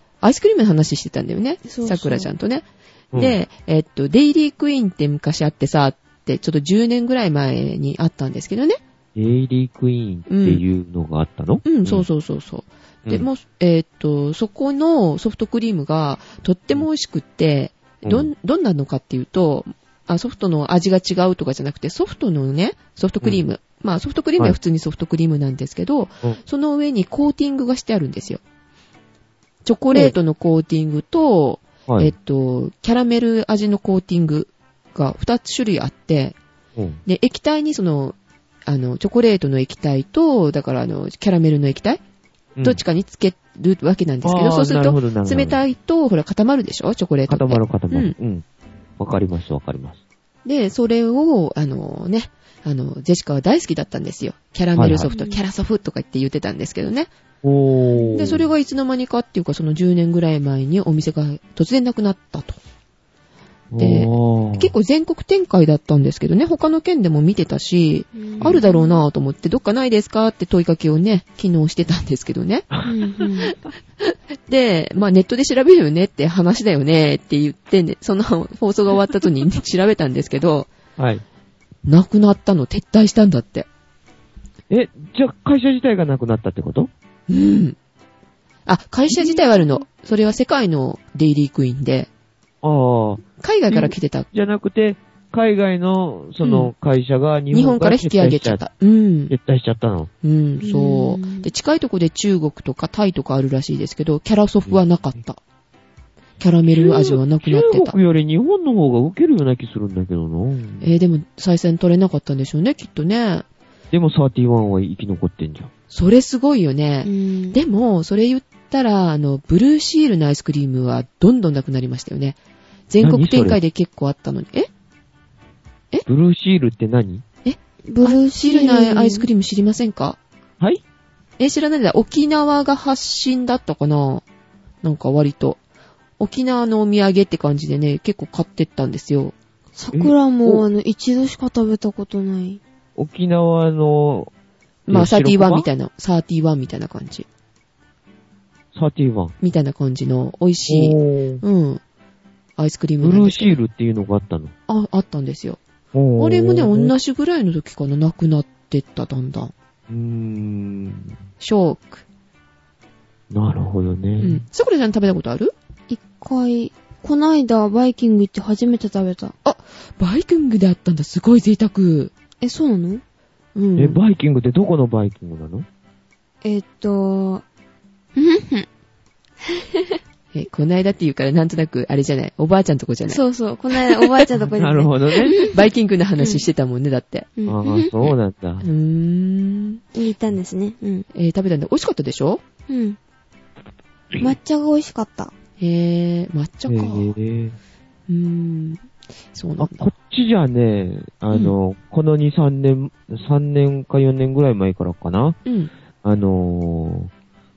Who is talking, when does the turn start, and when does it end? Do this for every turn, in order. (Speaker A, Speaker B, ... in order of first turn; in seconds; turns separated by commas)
Speaker A: 0.2-8.8, Speaker B: 1.6-2.3, Speaker C: 3.1-3.4, Speaker C: 9.1-12.1, Speaker A: 10.3-10.6, Speaker A: 11.6-28.4, Speaker C: 18.0-18.3, Speaker A: 29.6-36.4, Speaker C: 31.9-32.1, Speaker A: 37.0-42.0, Speaker A: 42.6-48.1, Speaker C: 44.2-45.6, Speaker C: 47.3-48.4, Speaker C: 49.0-50.0, Speaker A: 50.4-57.1, Speaker C: 54.8-55.1, Speaker B: 55.1-55.4, Speaker C: 57.4-58.5, Speaker B: 57.9-58.3, Speaker A: 58.1-62.6, Speaker C: 63.7-64.7, Speaker A: 63.8-72.7, Speaker B: 68.1-69.0, Speaker B: 72.8-73.5, Speaker A: 74.0-80.7, Speaker C: 81.0-81.2, Speaker A: 81.8-83.7, Speaker C: 84.7-86.9, Speaker A: 87.3-87.8, Speaker A: 88.7-92.1, Speaker C: 92.6-98.6, Speaker A: 93.4-94.3, Speaker A: 96.4-96.7, Speaker A: 97.5-99.3, Speaker C: 99.3-100.1, Speaker A: 100.2-105.4, Speaker B: 100.6-101.5, Speaker A: 106.4-108.0, Speaker C: 106.7-110.8, Speaker A: 110.8-113.5, Speaker C: 113.9-115.7, Speaker A: 115.9-122.4, Speaker B: 117.0-117.6, Speaker A: 122.9-124.7, Speaker C: 123.0-123.6, Speaker C: 126.0-127.2, Speaker A: 127.4-130.2, Speaker B: 127.9-129.3, Speaker A: 131.4-134.2, Speaker A: 134.8-135.6, Speaker A: 136.2-139.3, Speaker B: 139.8-142.6, Speaker C: 139.9-140.7, Speaker C: 142.9-144.3, Speaker A: 144.9-147.2, Speaker C: 144.9-145.7, Speaker C: 148.7-149.3, Speaker A: 149.4-151.8, Speaker C: 150.7-151.4, Speaker A: 152.6-153.6, Speaker C: 153.0-154.5, Speaker A: 154.7-155.6, Speaker C: 155.9-156.9, Speaker A: 156.2-159.5, Speaker C: 159.9-161.2, Speaker A: 161.4-162.0, Speaker C: 163.3-164.4, Speaker A: 164.2-165.5, Speaker B: 165.9-169.3, Speaker A: 169.4-172.1, Speaker B: 172.4-173.0, Speaker A: 173.5-174.0, Speaker C: 173.8-175.7, Speaker B: 176.4-177.4, Speaker B: 178.2-178.7, Speaker A: 180.3-183.2, Speaker B: 183.1-185.6, Speaker C: 184.5-185.4, Speaker A: 185.4-187.3, Speaker B: 186.2-186.4, Speaker B: 187.4-187.9, Speaker C: 187.5-188.7, Speaker A: 188.6-189.8, Speaker B: 189.9-191.1, Speaker A: 191.1-192.4, Speaker B: 192.7-193.0, Speaker B: 194.2-195.3, Speaker A: 195.6-197.1, Speaker C: 196.7-197.6, Speaker A: 198.1-198.8, Speaker A: 199.3-199.9, Speaker C: 199.6-205.4, Speaker A: 205.4-205.7, Speaker C: 206.0-207.1